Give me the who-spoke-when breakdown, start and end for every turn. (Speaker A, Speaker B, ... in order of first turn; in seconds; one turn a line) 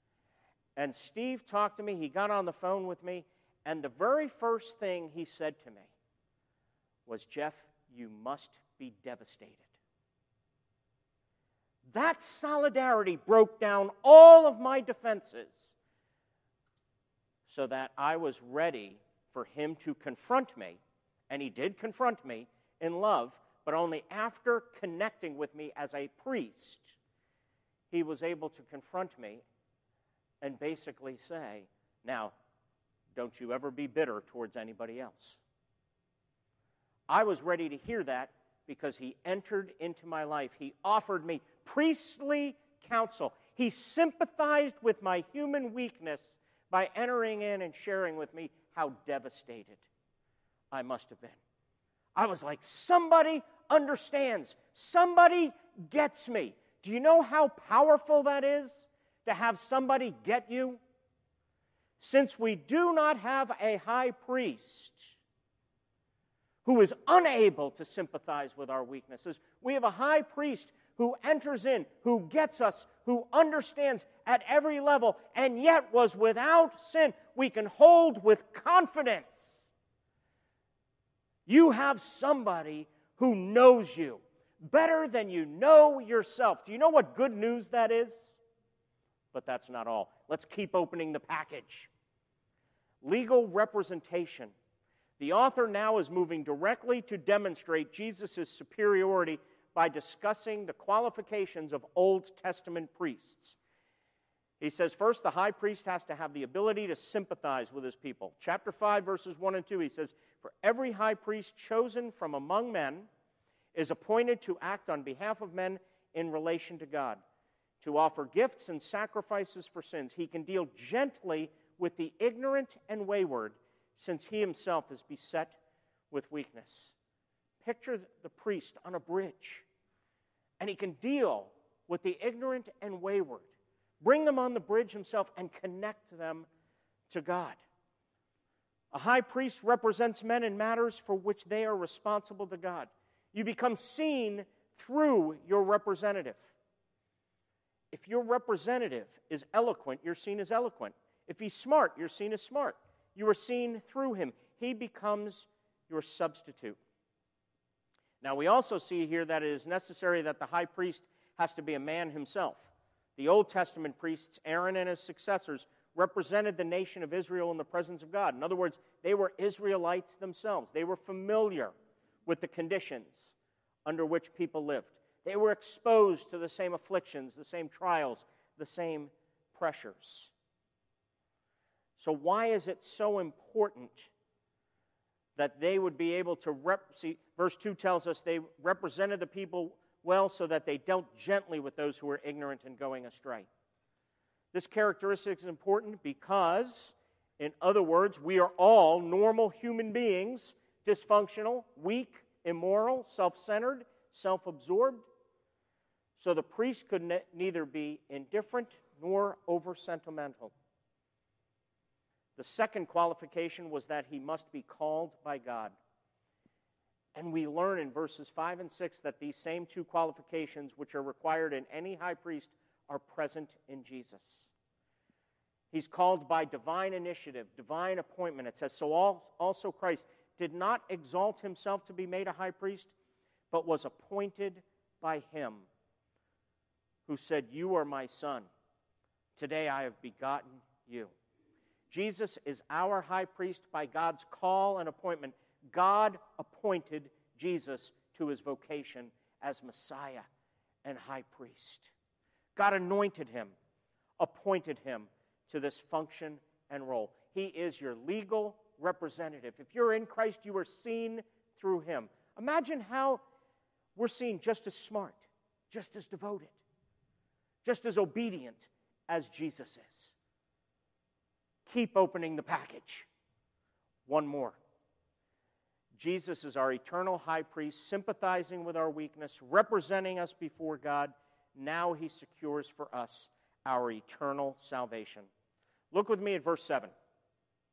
Speaker A: 0.8-5.9
Speaker A: 7.0-9.7
Speaker A: 11.9-15.7
Speaker A: 17.5-26.9
Speaker A: 27.9-29.4
Speaker A: 30.4-32.3
Speaker A: 33.1-35.4
Speaker A: 37.1-49.9
Speaker A: 50.7-51.4
Speaker A: 52.1-60.8
Speaker A: 62.0-65.1
Speaker A: 66.6-79.7
Speaker A: 81.5-88.4
Speaker A: 89.3-91.9
Speaker A: 93.0-94.5
Speaker A: 95.2-103.6
Speaker A: 104.6-113.1
Speaker A: 113.7-117.2
Speaker A: 117.8-125.6
Speaker A: 126.1-126.9
Speaker A: 127.6-129.7
Speaker A: 130.6-133.5
Speaker A: 134.0-136.5
Speaker A: 137.1-137.6
Speaker A: 138.9-146.5
Speaker A: 147.9-156.8
Speaker A: 158.2-171.7
Speaker A: 172.2-173.3
Speaker A: 173.8-180.3
Speaker A: 182.0-184.1
Speaker A: 185.3-193.5
Speaker A: 194.5-205.0
Speaker A: 206.2-210.5
Speaker A: 212.4-215.7
Speaker A: 217.1-224.5
Speaker A: 225.7-232.9
Speaker A: 233.5-235.7
Speaker A: 237.1-238.5
Speaker A: 239.3-241.1
Speaker A: 241.9-250.3
Speaker A: 250.8-251.9
Speaker A: 252.6-253.6
Speaker A: 254.2-263.2
Speaker A: 263.9-266.6
Speaker A: 267.6-270.1
Speaker A: 271.6-273.1
Speaker A: 274.1-274.6
Speaker A: 275.9-285.3
Speaker A: 285.9-286.9